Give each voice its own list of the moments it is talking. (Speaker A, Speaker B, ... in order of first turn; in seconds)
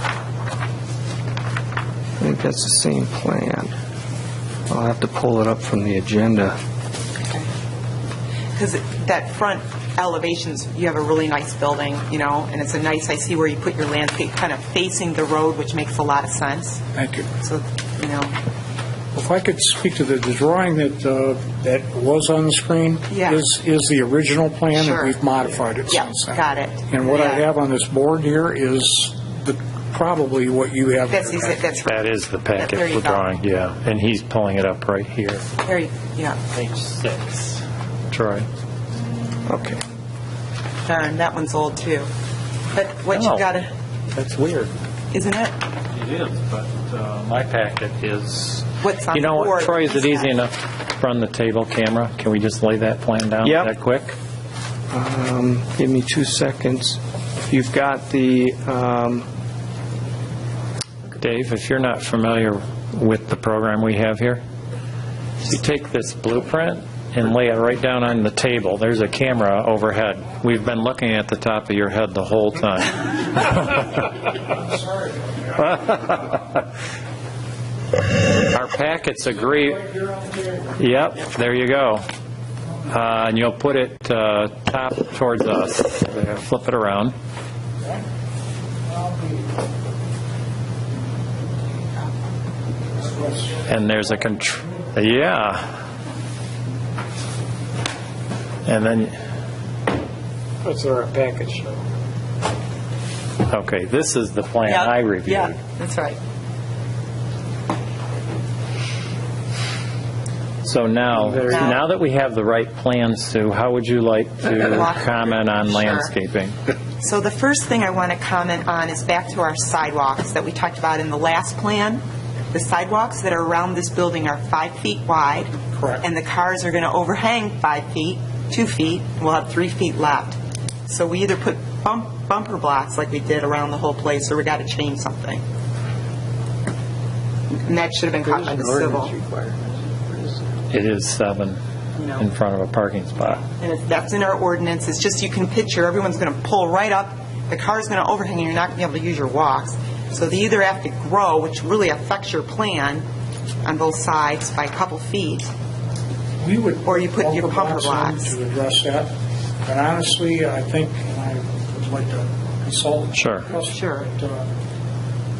Speaker A: 2.2-3.7, 4.7-6.5, 39.5-39.8, 53.4-53.7, 54.9-59.2, 101.1-101.6, 138.2-140.6
Speaker B: 8.5-16.8, 17.4-18.4, 23.1-23.4, 24.7-25.2, 25.9-27.4, 31.1-33.2, 35.6-36.4, 40.9-42.1, 42.7-43.7, 45.1-45.5, 48.8-50.3, 104.7-106.2, 111.5-111.8, 114.5-116.1, 117.0-135.4, 137.6-139.1, 141.9-142.2, 143.6-153.0, 153.6-155.5, 156.8-158.3, 163.6-164.1
Speaker C: 16.9-17.3, 19.1-31.6, 79.8-80.5, 88.9-89.4, 93.1-93.6, 125.7-126.0, 156.4-159.1, 159.6-164.5
Speaker D: 31.9-35.4, 36.5-38.5, 43.1-43.4, 44.1-44.7, 45.9-54.1, 61.1-64.4, 65.4-74.0, 75.6-76.6, 78.5-79.9, 80.8-82.0, 82.9-87.1, 93.6-95.7, 98.6-99.2, 103.4-105.6, 110.6-116.5, 140.7-141.6, 142.2-143.4, 163.2-163.5